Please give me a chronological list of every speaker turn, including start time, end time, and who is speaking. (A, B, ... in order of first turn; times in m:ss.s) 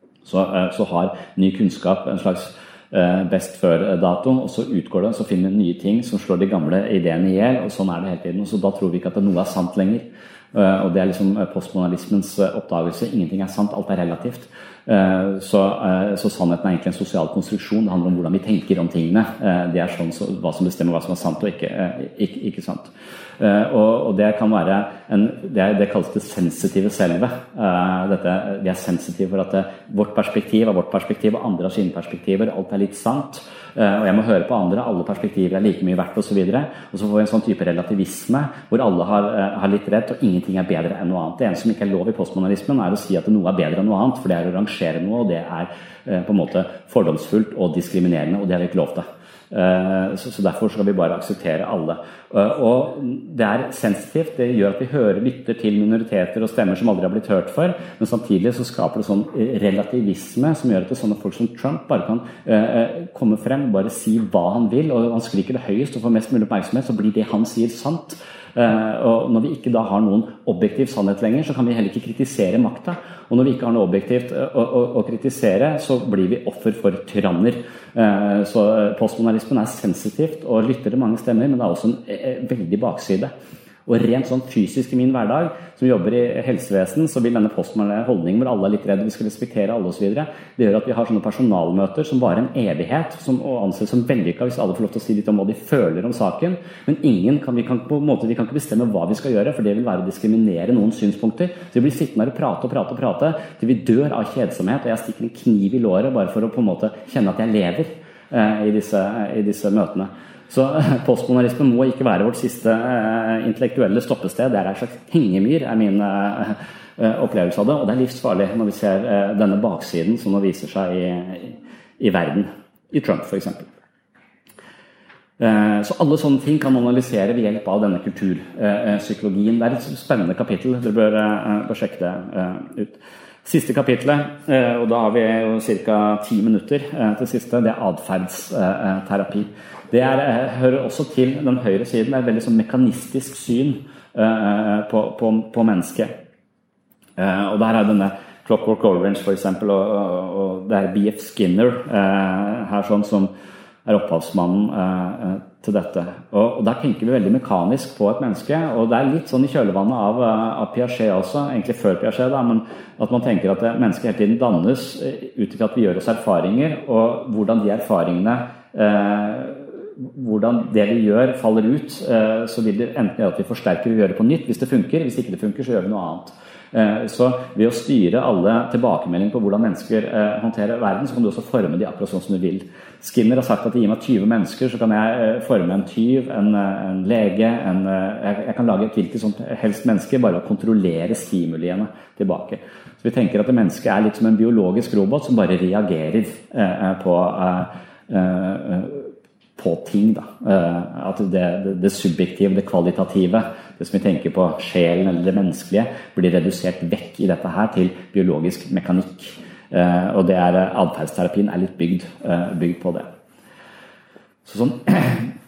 0:00.2-1:23.3 A
1:23.8-2:03.7 A
2:05.4-2:26.1 A
2:27.2-2:33.3 A
2:33.8-3:33.1 A
3:34.4-3:35.3 A